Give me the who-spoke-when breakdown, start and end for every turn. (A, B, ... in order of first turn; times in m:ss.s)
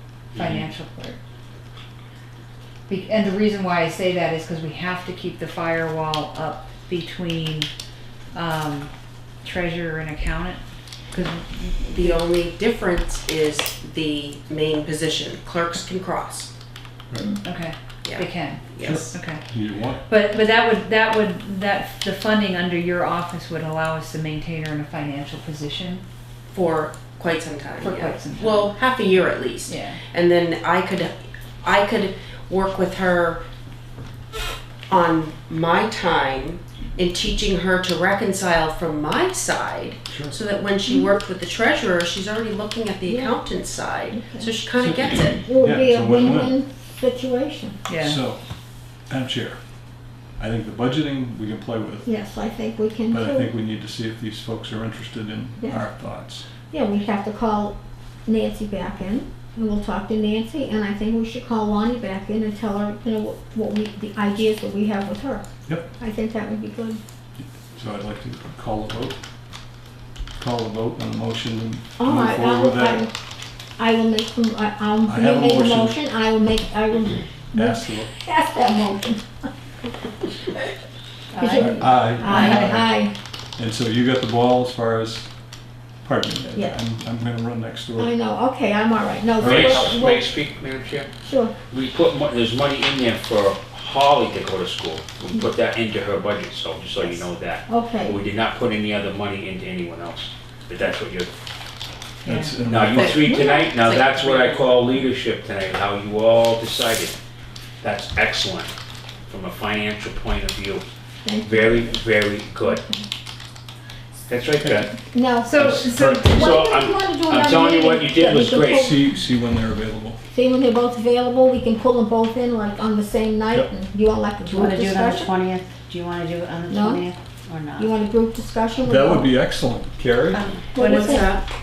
0:00.3-0:00.6 A
0:00.3-0:01.2 B
0:02.9-0:07.7 B
0:08.3-0:08.9 B
0:09.4-0:12.2 B
0:11.9-0:16.5 C
0:17.4-0:19.4 B
0:18.0-0:19.1 C
0:18.8-0:20.0 D
0:20.0-0:26.0 B
0:26.5-0:31.1 C
0:27.8-0:28.8 B
0:29.6-0:30.0 B
0:31.6-0:33.4 C
0:34.9-0:45.4 C
0:40.1-0:40.4 D
0:43.0-0:43.4 E
0:44.1-0:44.5 E
0:44.8-0:46.6 D
0:45.4-0:47.8 E
0:47.8-0:48.2 B
0:48.0-0:48.4 D
0:49.1-0:49.6 D
0:50.4-0:52.1 D
0:52.0-0:53.5 E
0:53.1-0:56.4 D
0:56.7-0:57.7 E
0:58.2-1:05.4 E
1:05.6-1:05.9 D
1:06.0-1:07.0 E
1:07.4-1:09.2 D
1:10.4-1:13.1 D
1:12.0-1:13.1 E
1:13.8-1:19.2 E
1:15.0-1:16.0 D
1:17.5-1:18.1 D
1:21.3-1:22.7 B
1:21.4-1:23.1 E
1:21.4-1:23.0 D
1:23.6-1:25.3 D
1:26.0-1:28.1 D
1:28.0-1:30.3 E
1:29.4-1:31.1 A
1:29.4-1:30.0 D
1:31.2-1:31.5 E
1:31.7-1:41.3 A
1:37.7-1:38.2 E
1:42.2-1:42.6 B
1:42.2-1:43.2 D
1:42.6-1:47.2 A
1:42.9-1:44.7 C
1:43.3-1:43.5 E
1:47.8-1:48.7 A
1:49.3-1:50.8 A
1:51.2-1:52.0 E
1:51.4-1:52.8 A
1:54.3-1:54.9 A
1:54.6-1:54.9 D
1:55.1-1:59.0 E
1:55.4-1:56.5 B
1:55.6-1:58.9 A
1:58.7-2:00.2 D
2:00.3-2:05.3 E
2:04.4-2:08.0 F
2:06.7-2:07.0 E
2:07.8-2:09.4 E
2:08.8-2:10.4 D
2:10.4-2:10.7 F
2:10.7-2:11.3 E
2:10.8-2:11.3 B
2:10.8-2:11.4 C